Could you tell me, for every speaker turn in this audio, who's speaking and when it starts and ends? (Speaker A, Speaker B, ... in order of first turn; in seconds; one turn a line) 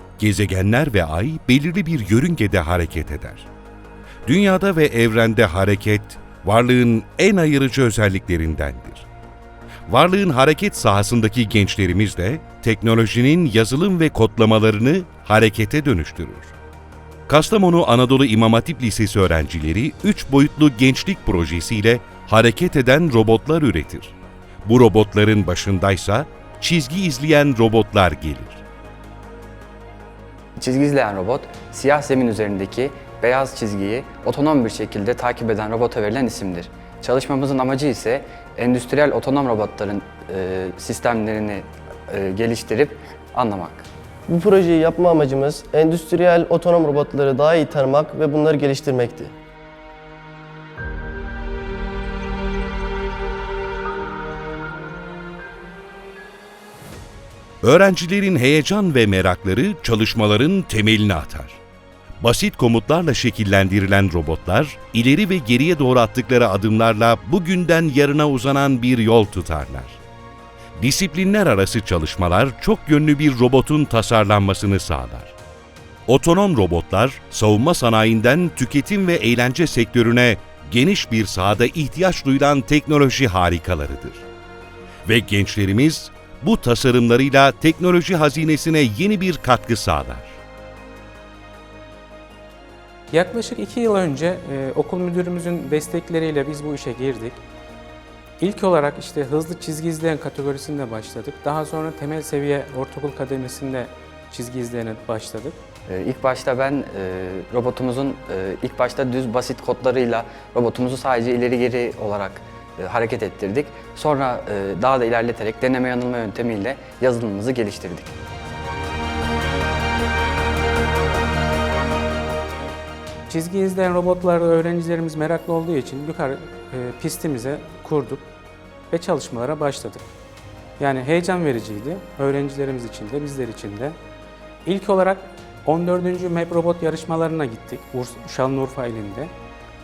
Speaker A: 0.2-3.5
Speaker A: 4.2-9.1
Speaker A: 9.9-16.5
Speaker A: 17.3-28.6
Speaker B: 30.6-43.9
Speaker C: 44.3-49.3
Speaker A: 57.6-61.6
Speaker A: 62.2-70.0
Speaker A: 70.8-75.3
Speaker A: 76.1-84.2
Speaker A: 85.0-90.4
Speaker D: 93.1-97.4
Speaker D: 98.4-105.6
Speaker B: 105.9-118.1
Speaker D: 123.3-128.2
Speaker D: 128.9-130.0
Speaker D: 130.8-134.0
Speaker D: 134.7-139.3